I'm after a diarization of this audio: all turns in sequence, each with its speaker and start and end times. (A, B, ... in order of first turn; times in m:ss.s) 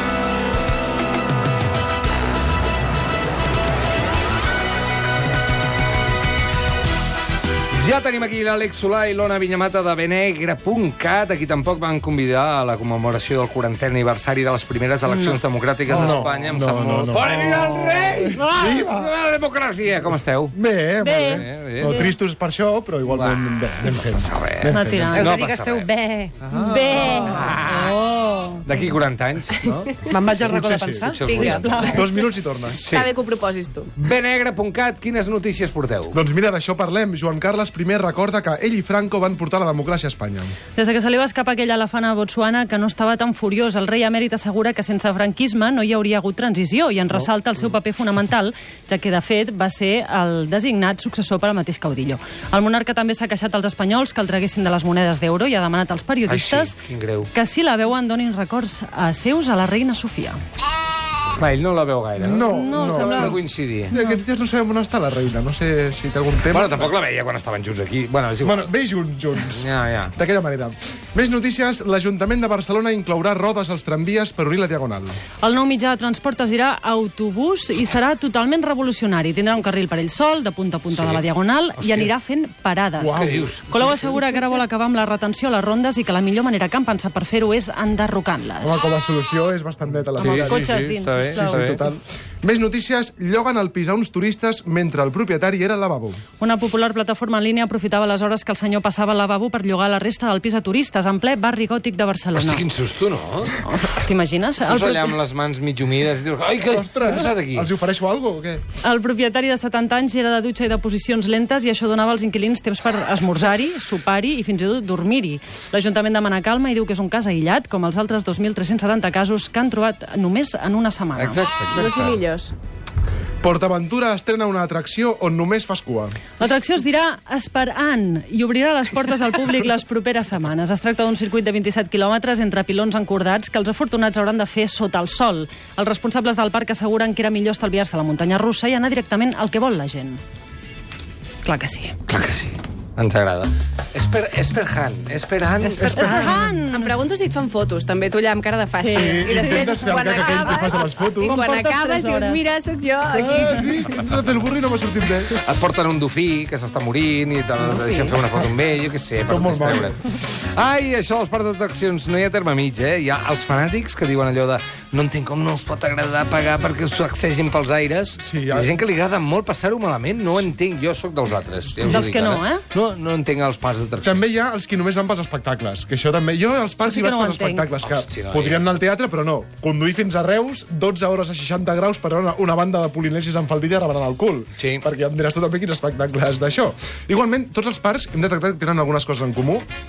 0:07.7-0:20.5 A
0:15.0-0:15.4 B
0:15.9-0:17.5 C
0:18.2-0:18.8 B
0:18.4-0:19.1 C
0:20.5-0:25.2 C
0:21.0-0:22.1 B
0:21.3-0:22.1 A
0:23.1-0:25.9 A
0:24.7-0:25.4 B
0:25.1-0:26.4 D
0:26.4-0:27.6 C
0:26.5-0:28.6 B
0:26.9-0:27.5 E
0:27.1-0:28.0 A
0:28.6-0:29.6 A
0:29.6-0:33.1 C
0:30.0-0:31.6 D
0:31.1-0:31.6 A
0:31.2-0:32.0 E
0:31.3-0:32.3 B
0:32.9-0:33.9 E
0:34.0-0:36.2 A
0:36.1-0:40.5 C
0:40.8-0:56.8 B
0:56.3-0:57.3 A
0:57.3-1:00.4 B
1:01.4-1:03.9 A
1:02.2-1:06.9 C
1:02.4-1:03.4 B
1:03.9-1:04.2 B
1:06.5-1:08.7 A
1:08.4-1:15.2 C
1:09.5-1:10.1 A
1:15.4-1:28.8 B
1:20.9-1:21.2 A
1:21.7-1:22.1 A
1:23.0-1:24.4 C
1:23.1-1:23.6 A
1:28.6-1:30.8 C
1:29.9-1:31.8 A
1:30.2-1:31.9 B
1:31.3-1:36.2 C
1:36.4-1:42.6 B
1:42.4-1:43.6 A
1:43.6-1:45.2 B
1:44.6-1:47.7 A
1:46.6-1:48.6 C
1:48.8-2:01.4 B
2:01.2-2:02.2 A
2:01.7-2:02.5 E
2:03.4-2:06.2 C
2:06.4-2:20.2 B
2:21.4-2:22.0 B
2:22.1-2:26.3 A
2:25.6-2:33.9 E
2:25.8-2:26.4 C
2:25.9-2:27.0 B
2:28.8-2:32.5 B
2:28.9-2:31.4 C
2:33.1-2:35.3 C
2:35.4-2:54.2 A
2:37.7-2:38.2 E
2:39.3-2:40.0 C
2:48.2-2:48.8 C
2:51.9-2:52.6 B
2:54.0-3:09.6 C
2:56.8-2:57.7 B
2:57.8-2:58.6 A
3:04.6-3:04.8 A